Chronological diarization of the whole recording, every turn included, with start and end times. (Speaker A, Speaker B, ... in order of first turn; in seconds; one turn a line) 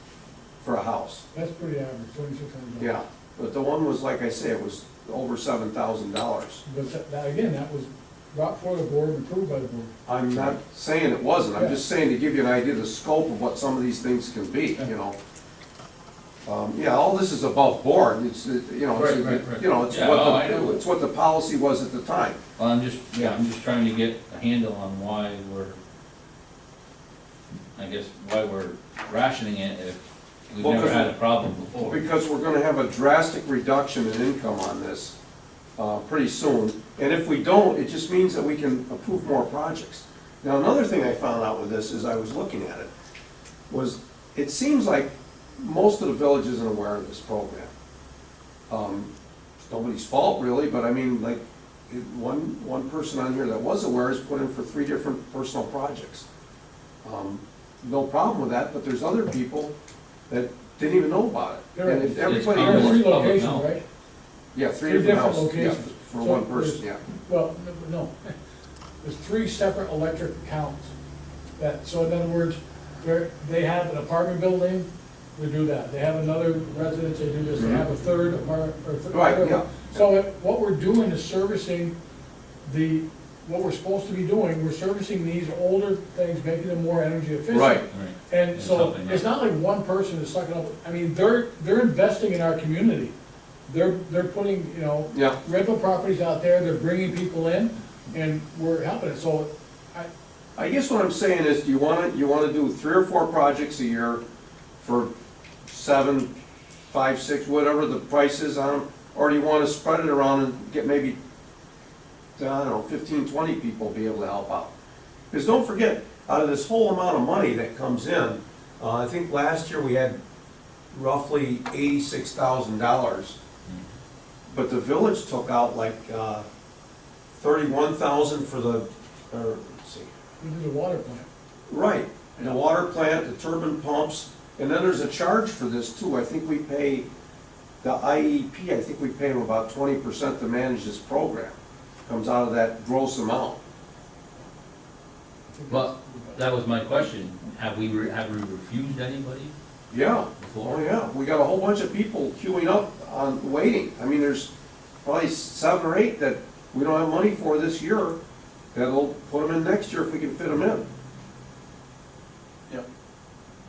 Speaker A: 0.6-1.2
Speaker B: 1.3-3.0
Speaker A: 2.8-6.6
Speaker B: 6.7-9.9
Speaker A: 10.1-15.2
Speaker A: 16.5-22.4
Speaker C: 18.9-20.8
Speaker C: 22.6-25.8
Speaker C: 27.8-32.0
Speaker A: 30.6-31.1
Speaker A: 31.8-35.1
Speaker A: 35.8-42.9
Speaker A: 43.7-47.7
Speaker A: 48.7-56.3
Speaker A: 57.0-59.7
Speaker A: 60.3-63.1
Speaker B: 61.7-63.8
Speaker C: 62.2-63.7
Speaker A: 64.5-67.0
Speaker B: 64.8-68.3
Speaker B: 69.0-70.9
Speaker B: 71.6-81.9
Speaker A: 77.6-77.8
Speaker A: 79.1-79.9
Speaker B: 82.6-93.1
Speaker A: 87.5-87.8
Speaker C: 87.9-89.3
Speaker B: 93.7-100.1
Speaker A: 95.1-95.4
Speaker A: 100.6-104.2
Speaker A: 104.8-105.1
Speaker A: 105.7-106.3
Speaker A: 106.9-111.2
Speaker A: 112.4-114.7
Speaker A: 115.3-120.2
Speaker A: 120.9-123.4
Speaker A: 124.5-126.5
Speaker A: 127.3-130.1
Speaker B: 130.4-131.3
Speaker A: 131.7-137.1
Speaker A: 137.8-143.6
Speaker B: 145.5-146.4
Speaker C: 145.7-149.5
Speaker A: 149.9-154.5
Speaker C: 150.4-150.9
Speaker A: 155.0-158.2
Speaker A: 158.7-160.9